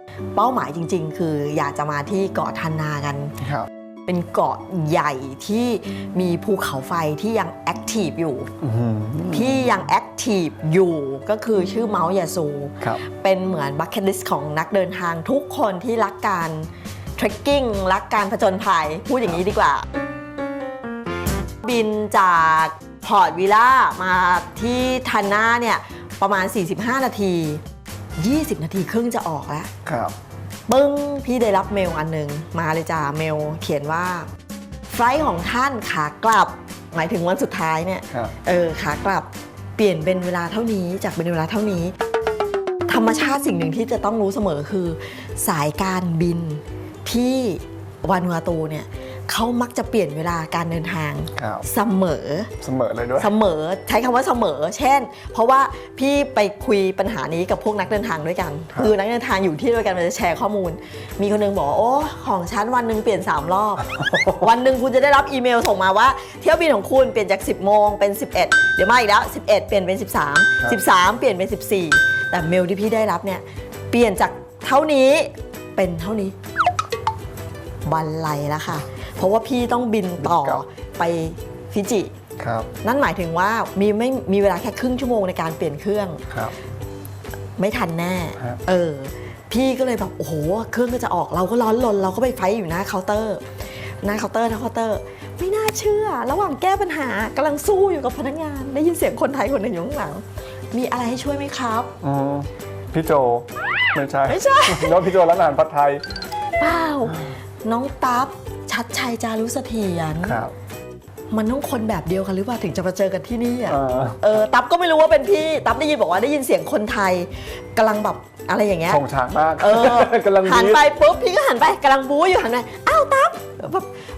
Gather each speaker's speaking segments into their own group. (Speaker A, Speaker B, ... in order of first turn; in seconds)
Speaker A: 0.3-3.4, 4.1-8.5, 9.3-19.9, 21.6-27.6, 28.2-29.7, 30.7-34.3, 34.9-41.9, 42.9-52.5, 53.2-76.3, 77.8-82.1, 82.8-86.2, 87.6-93.4, 94.0-101.9, 104.3-105.0, 106.6-110.4, 111.3-119.0, 119.6-123.9
Speaker B: 3.4-3.7, 8.6-9.8, 29.8-30.1, 51.4-51.6, 52.6-53.3, 64.0-64.4, 80.2-80.6, 82.4-82.7, 102.0-106.0, 110.2-110.5, 113.7-114.2, 118.9-120.8